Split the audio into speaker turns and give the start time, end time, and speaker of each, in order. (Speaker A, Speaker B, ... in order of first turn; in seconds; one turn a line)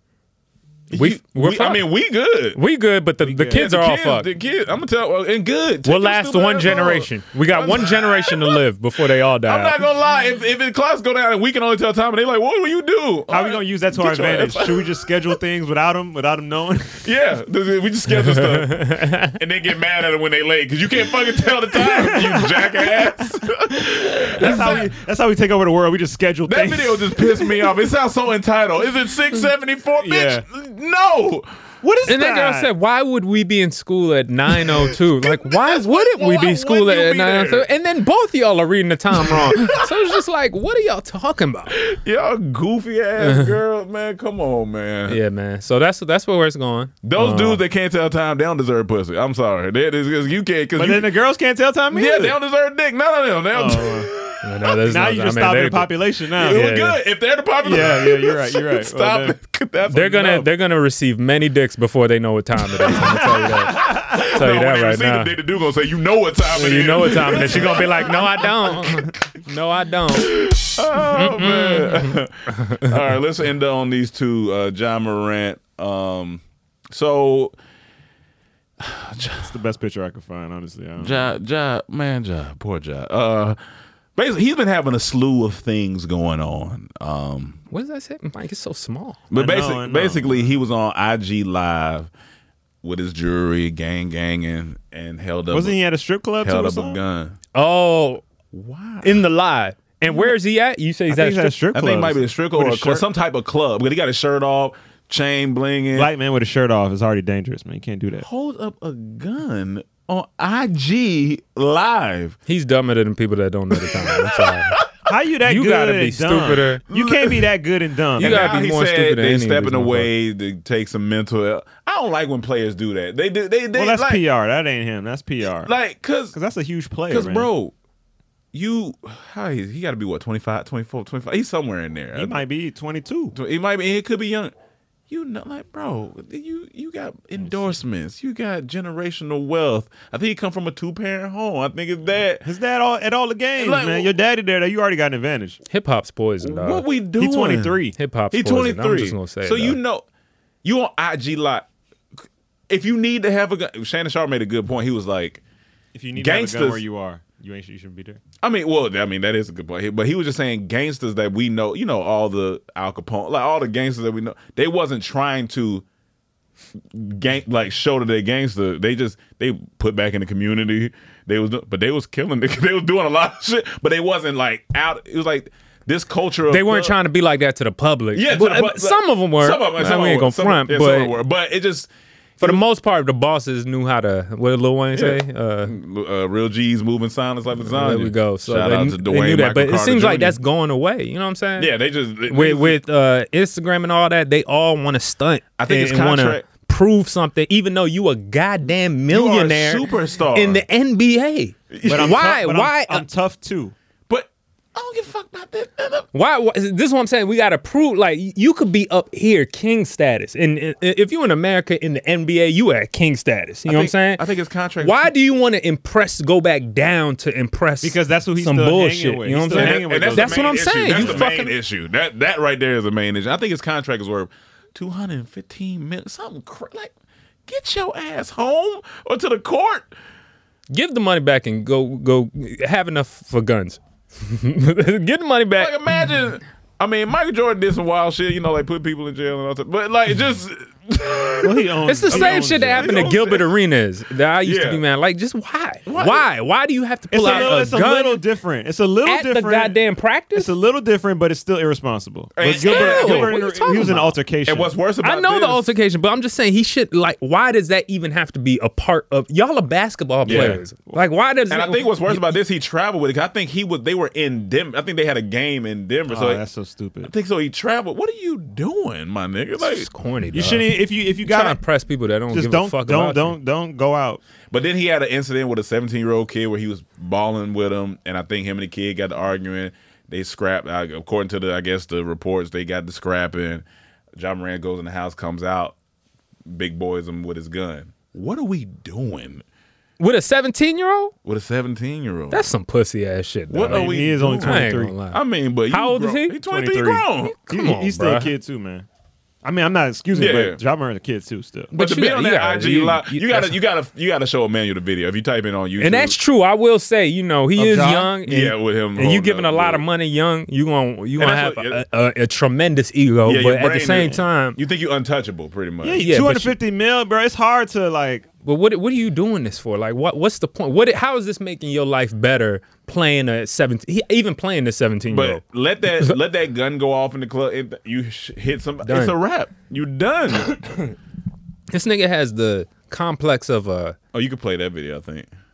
Speaker A: 0.9-2.6
Speaker B: 0.9-1.9
Speaker B: 2.5-4.3
Speaker C: 3.3-3.6
Speaker A: 3.5-8.6
Speaker B: 5.8-9.8
Speaker A: 9.4-15.3
Speaker C: 13.3-17.1
Speaker A: 17.0-24.9
Speaker B: 18.1-19.4
Speaker C: 21.8-22.9
Speaker C: 24.3-27.3
Speaker A: 26.5-31.5
Speaker C: 30.0-30.4
Speaker C: 31.8-32.7
Speaker B: 32.1-41.8
Speaker A: 34.7-37.7
Speaker A: 39.2-39.9
Speaker A: 41.7-45.2
Speaker B: 43.2-43.5
Speaker B: 45.1-47.6
Speaker A: 47.0-51.1
Speaker C: 50.8-52.4
Speaker A: 51.9-54.4
Speaker C: 53.5-54.1
Speaker B: 54.4-57.0
Speaker C: 54.9-56.6
Speaker A: 56.4-60.5
Speaker C: 57.6-59.4
Speaker B: 59.9-65.3
Speaker C: 63.1-64.3
Speaker A: 63.9-69.1
Speaker B: 66.5-70.6
Speaker C: 67.4-68.0
Speaker A: 70.2-77.5
Speaker B: 71.1-73.0
Speaker A: 78.8-79.5
Speaker C: 79.4-81.3
Speaker A: 81.0-83.6
Speaker A: 84.2-87.6
Speaker B: 87.7-89.2
Speaker A: 89.3-92.1
Speaker C: 89.3-90.5
Speaker A: 92.8-95.8
Speaker C: 95.5-97.0
Speaker A: 96.4-97.4
Speaker B: 97.5-98.2
Speaker A: 98.5-99.2
Speaker B: 99.0-101.5
Speaker C: 101.1-103.0
Speaker A: 101.7-106.1
Speaker C: 106.0-108.3
Speaker A: 108.2-112.4
Speaker B: 112.5-114.8
Speaker A: 113.8-114.6
Speaker C: 115.1-118.6
Speaker B: 115.5-116.8
Speaker A: 116.9-117.5
Speaker B: 118.2-120.1
Speaker A: 118.2-124.2
Speaker C: 123.7-125.7
Speaker A: 125.6-126.3
Speaker C: 126.3-127.5
Speaker A: 127.1-127.7
Speaker A: 128.5-132.4
Speaker C: 132.1-133.3
Speaker A: 133.3-134.5
Speaker A: 135.1-142.4
Speaker C: 137.4-137.7
Speaker C: 142.4-145.6
Speaker A: 143.6-144.1
Speaker B: 145.7-146.8
Speaker A: 146.4-147.8
Speaker C: 147.2-148.0
Speaker B: 147.9-149.8
Speaker A: 148.3-150.1
Speaker A: 150.6-151.7
Speaker A: 152.7-155.4
Speaker C: 155.9-158.2
Speaker A: 156.2-156.8
Speaker A: 158.4-165.8
Speaker A: 166.9-177.0
Speaker B: 176.5-181.2
Speaker A: 178.1-182.6
Speaker B: 182.4-185.7
Speaker A: 184.9-190.4
Speaker B: 187.6-191.7
Speaker A: 191.6-192.8
Speaker B: 192.3-203.0
Speaker A: 195.6-196.5
Speaker A: 199.1-200.6
Speaker A: 201.7-202.2
Speaker C: 201.9-203.8
Speaker A: 204.1-206.1
Speaker B: 206.1-214.2
Speaker A: 213.7-215.1
Speaker B: 214.8-221.5
Speaker C: 217.8-221.5
Speaker A: 219.6-226.9
Speaker A: 227.5-229.9
Speaker B: 230.7-235.9
Speaker A: 235.6-243.6
Speaker C: 241.4-243.0
Speaker B: 241.9-248.2
Speaker A: 244.4-244.8
Speaker A: 245.9-246.3
Speaker C: 247.1-249.8
Speaker A: 247.2-247.6
Speaker B: 249.1-250.5
Speaker C: 250.3-254.7
Speaker A: 252.4-253.4
Speaker B: 252.6-254.2
Speaker A: 254.5-255.7
Speaker B: 255.0-262.3
Speaker A: 260.2-260.6
Speaker C: 260.2-261.0
Speaker A: 261.5-266.4
Speaker C: 266.1-267.1
Speaker A: 267.0-269.9
Speaker B: 269.6-273.4
Speaker C: 270.3-271.6
Speaker C: 272.3-274.2
Speaker A: 274.5-283.6
Speaker A: 284.2-285.8
Speaker A: 286.5-289.4
Speaker B: 290.0-291.1
Speaker A: 291.2-292.5
Speaker B: 292.3-296.4
Speaker A: 293.5-297.4
Speaker C: 293.7-294.9
Speaker C: 296.4-298.9
Speaker B: 297.3-298.3
Speaker C: 299.4-301.7
Speaker A: 300.2-300.6
Speaker B: 301.7-303.6
Speaker A: 301.7-306.2
Speaker B: 305.8-314.6
Speaker C: 307.6-308.1
Speaker A: 308.2-309.9
Speaker A: 311.2-311.8
Speaker A: 313.2-316.0
Speaker C: 315.8-318.3
Speaker B: 316.0-316.6
Speaker B: 318.4-325.4
Speaker A: 325.1-330.6
Speaker B: 328.8-329.2
Speaker B: 331.7-334.0
Speaker A: 334.1-335.3